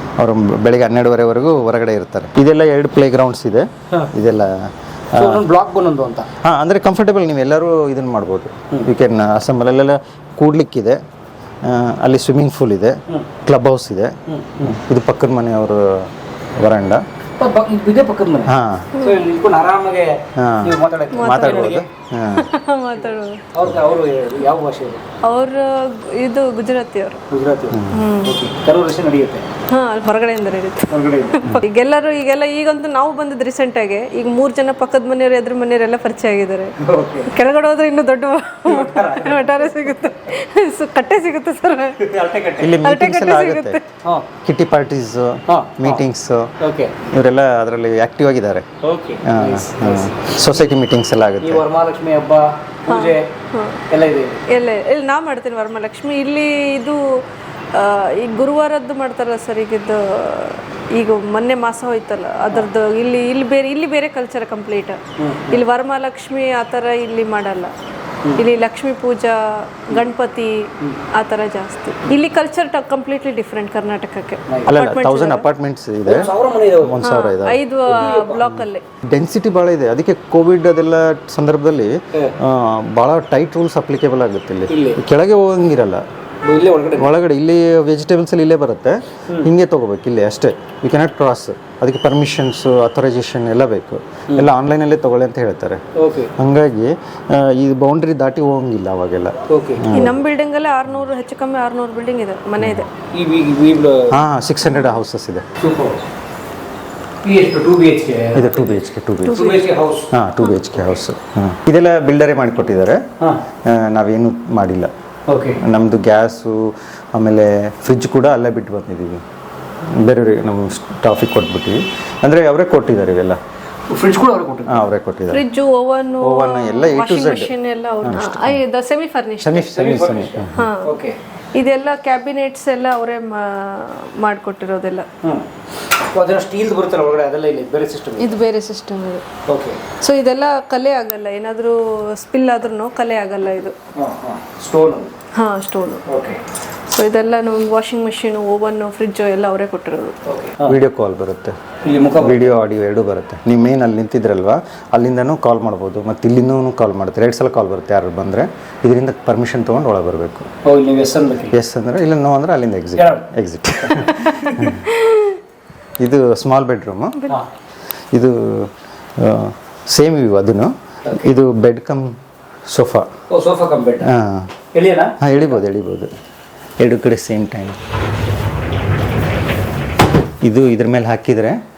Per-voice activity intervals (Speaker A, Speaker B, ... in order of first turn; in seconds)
Speaker A: 0.2-5.5, 6.4-11.0, 11.6-17.0, 18.5-18.9, 20.4-22.5, 27.7-28.0, 42.6-43.8, 44.4-48.6, 49.2-51.6, 74.7-77.6, 78.5-86.0, 86.9-95.8, 96.3-100.2, 102.6-102.8, 104.1-105.5, 108.3-109.5, 110.1-113.0, 113.6-114.9, 115.6-119.2, 119.8-123.4, 124.7-125.4, 126.2-128.6, 129.4-130.7, 150.6-151.6, 152.2-160.5, 161.5-164.9, 166.0-167.2, 168.1-172.2, 172.7-173.1, 174.0-174.5, 175.2-176.1, 176.8-177.8, 180.4-181.6
Speaker B: 5.1-6.3, 14.3-14.8, 17.4-21.9, 23.5-25.0, 27.3-29.5, 30.9-31.4, 36.8-37.3, 38.6-39.9, 42.0-42.8, 45.5-46.0, 46.6-47.0, 48.8-50.4, 51.4-53.3, 53.9-54.4, 65.2-65.6, 76.0-77.0, 77.8-78.4, 84.7-85.0, 86.4-87.1, 95.9-96.3, 99.5-99.9, 103.1-104.2, 105.6-106.0, 107.2-108.8, 109.3-110.1, 115.3-115.6, 123.9-124.9, 129.6-131.2, 135.2-138.4, 139.4-139.8, 143.9-145.1, 146.1-146.4, 150.2-150.8, 151.8-152.6, 160.6-161.6, 162.9-163.2, 163.8-164.7, 173.3-174.1, 174.7-175.2
Speaker C: 21.1-21.8, 22.3-23.4, 25.2-27.2, 27.9-28.4, 29.7-36.8, 37.3-42.2, 42.8-43.8, 52.9-53.8, 54.5-57.2, 57.7-67.7, 68.4-75.5, 77.0-78.8, 99.9-102.9, 109.3-109.6, 125.3-130.9, 131.5-135.1, 138.2-139.2, 140.0-143.8, 145.3-146.0, 146.9-150.2, 164.9-165.3